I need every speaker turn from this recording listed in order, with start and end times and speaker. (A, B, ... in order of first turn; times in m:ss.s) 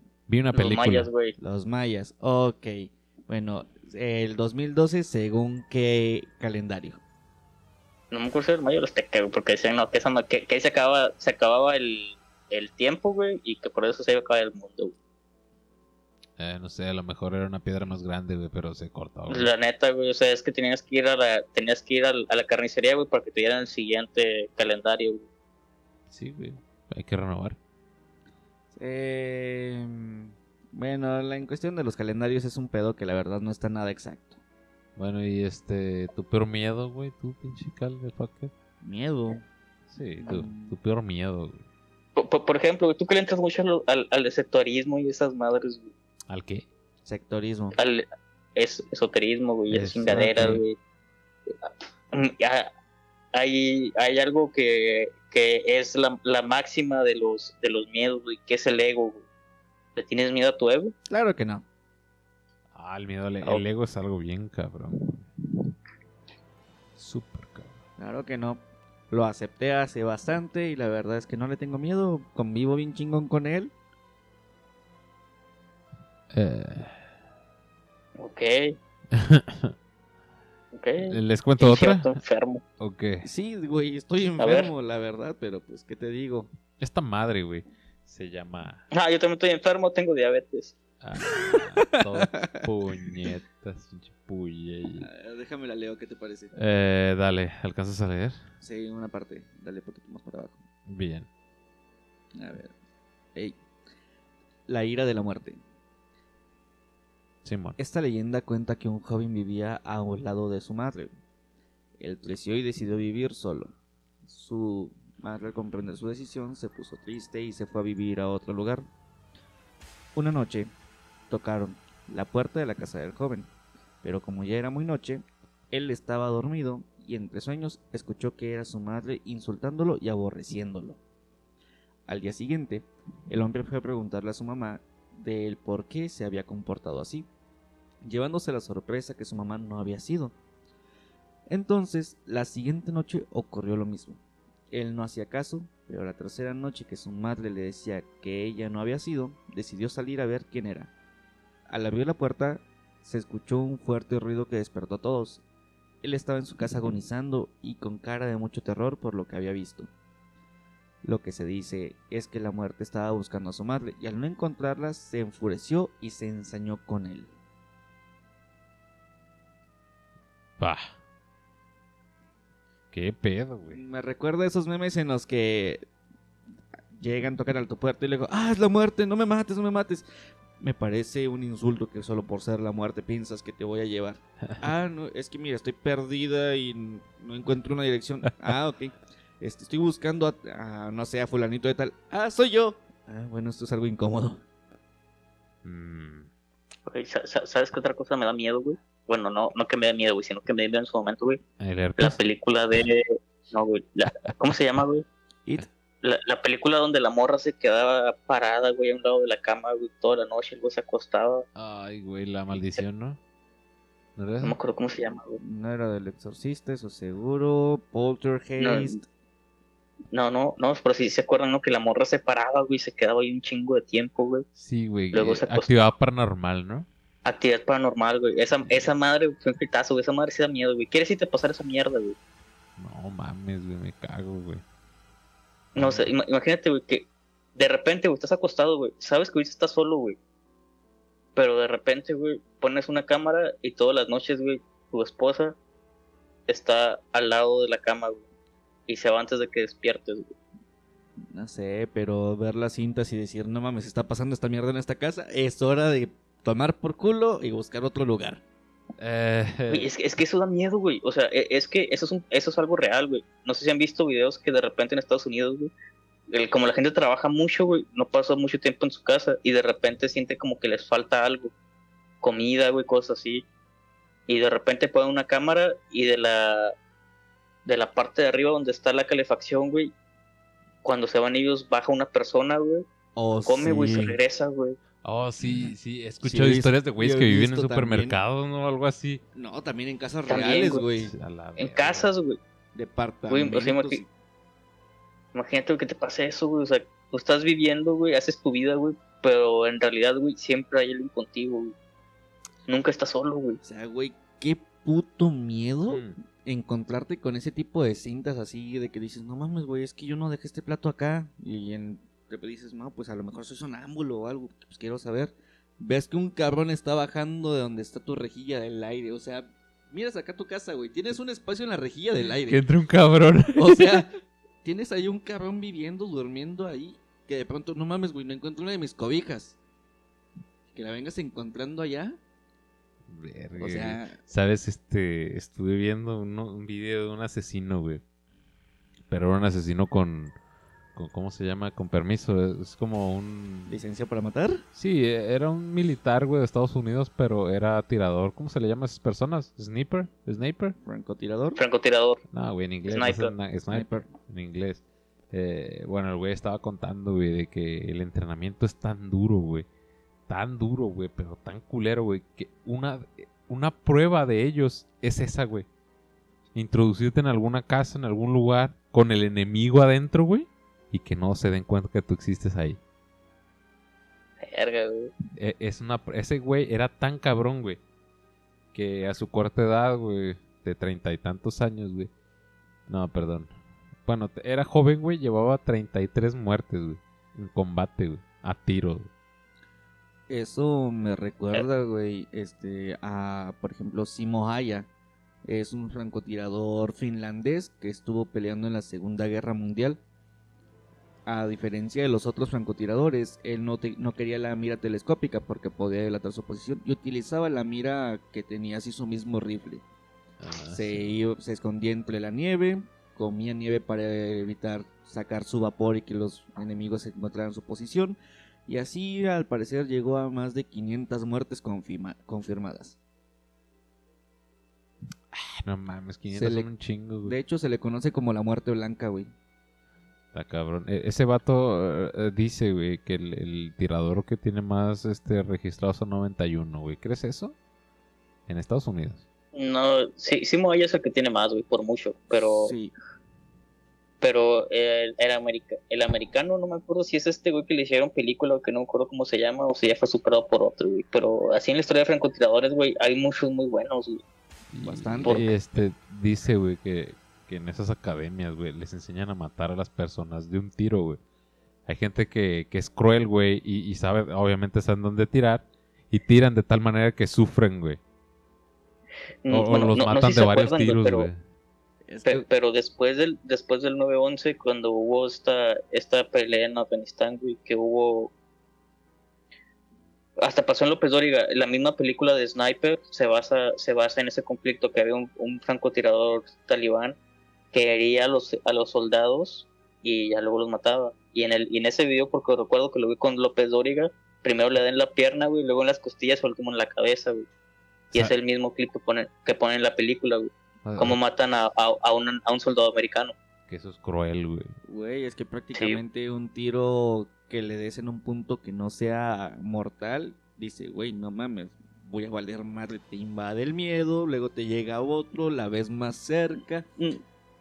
0:00.3-0:01.1 A
0:00.5-0:01.4 B
0:01.4-0:07.0 C
0:08.1-0:15.0 B
0:16.4-0:19.5 A
0:19.3-0:25.3 B
0:26.1-0:27.6 A
0:28.7-0:34.4 C
0:35.0-0:38.5 A
0:38.8-0:39.4 C
0:39.9-0:41.6 A
0:40.2-0:40.8 C
0:42.2-0:45.9 B
0:46.3-0:46.7 A
0:47.0-0:47.8 C
0:47.8-0:50.8 B
0:49.7-0:50.6 A
0:51.5-0:52.7 B
0:53.3-0:59.2 B
1:00.0-1:00.9 B
1:01.1-1:01.6 C
1:02.7-1:05.2 A
1:07.0-1:07.8 A
1:08.0-1:13.7 C
1:16.3-1:17.0 A
1:18.2-1:18.8 B
1:19.1-1:19.7 A
1:20.7-1:22.6 B
1:21.0-1:22.2 A
1:22.8-1:23.3 A
1:23.2-1:26.5 C
1:24.4-1:24.7 B
1:26.8-1:28.8 A
1:28.9-1:30.8 B
1:31.0-1:35.1 A
1:31.3-1:32.7 C
1:35.0-1:36.5 C
1:36.6-1:38.4 A
1:38.6-1:40.6 C
1:40.9-1:41.3 A
1:42.4-1:42.7 C
1:44.7-1:45.6 C
1:47.4-1:47.8 A
1:47.8-1:51.1 C
1:52.0-1:53.7 C
1:54.3-1:58.8 C
2:00.2-2:00.7 C
2:01.3-2:03.5 C
2:04.0-2:11.0 C
2:12.1-2:17.3 C
2:18.0-2:20.3 C
2:21.5-2:24.2 C
2:24.7-2:30.9 C
2:31.7-2:35.4 C
2:36.0-2:39.9 C
2:41.0-2:47.3 C
2:50.6-2:50.9 A
2:52.9-2:53.8 A
2:53.7-2:55.8 C
2:56.9-3:00.1 C
3:00.6-3:14.4 C
3:15.6-3:16.3 A
3:16.9-3:21.4 B
3:21.6-3:22.2 A
3:22.0-3:25.1 B
3:26.0-3:31.4 B
3:31.6-3:33.2 A
3:34.2-3:34.6 A
3:34.4-3:35.4 B
3:35.4-3:39.0 C
3:38.6-3:39.0 B
3:40.1-3:44.4 B
3:44.6-3:46.9 A
3:45.1-3:45.7 B
3:47.2-3:52.2 B
3:52.8-3:54.6 A
3:55.8-3:56.1 A
3:55.8-4:00.2 B
4:01.4-4:05.6 B
4:06.5-4:08.2 B
4:08.9-4:10.3 B
4:11.3-4:18.4 C
4:19.0-4:19.9 A
4:19.7-4:25.7 B
4:26.3-4:31.5 B
4:32.2-4:33.5 B
4:34.3-4:36.8 B
4:37.7-4:39.9 B
4:40.8-4:42.9 B
4:43.2-4:44.2 C
4:43.5-4:44.8 B
4:45.0-4:49.2 A
4:45.4-4:48.2 C
4:49.3-4:51.1 C
4:50.3-4:50.8 B
4:51.0-4:52.1 A
4:51.6-4:52.4 B
4:52.7-4:54.1 C
4:53.3-4:54.0 B
4:55.3-5:01.8 B
5:02.7-5:03.6 B
5:03.6-5:22.6 C
5:05.9-5:06.2 A
5:22.5-5:24.0 A
5:23.6-5:24.1 C
5:24.6-5:29.6 C
5:30.7-5:32.2 C
5:33.1-5:38.0 A
5:33.6-5:34.2 C
5:39.1-5:40.3 A
5:41.0-5:43.8 A
5:43.7-5:44.6 C
5:44.8-5:50.8 A
5:50.8-5:51.6 C
5:51.6-5:52.2 B
5:52.3-5:59.7 A
5:52.9-5:53.3 B
5:53.7-5:54.1 C
6:00.3-6:05.7 A
6:06.5-6:12.8 A
6:14.4-6:15.1 B
6:15.4-6:17.8 A
6:18.7-6:22.1 A
6:22.9-6:23.5 A
6:24.1-6:29.1 A
6:30.3-6:34.9 C
6:35.4-6:40.0 C
6:41.3-6:49.8 C
6:50.4-6:51.1 A
6:50.7-7:03.0 C
7:05.3-7:07.4 A
7:06.3-7:06.7 C
7:07.2-7:09.3 C
7:10.3-7:17.6 A
7:18.5-7:19.2 A
7:19.5-7:22.7 B
7:22.6-7:22.9 C
7:24.2-7:34.2 B
7:34.7-7:41.2 A
7:34.8-7:35.8 C
7:41.9-7:48.0 A
7:49.4-7:51.3 B
7:49.5-7:51.4 A
7:52.1-7:52.4 C
7:52.3-7:58.3 B
8:00.4-8:07.2 B
8:07.7-8:17.5 B
8:18.1-8:23.4 B
8:20.8-8:21.2 A
8:23.7-8:24.7 A
8:24.9-8:36.9 C
8:25.7-8:26.0 B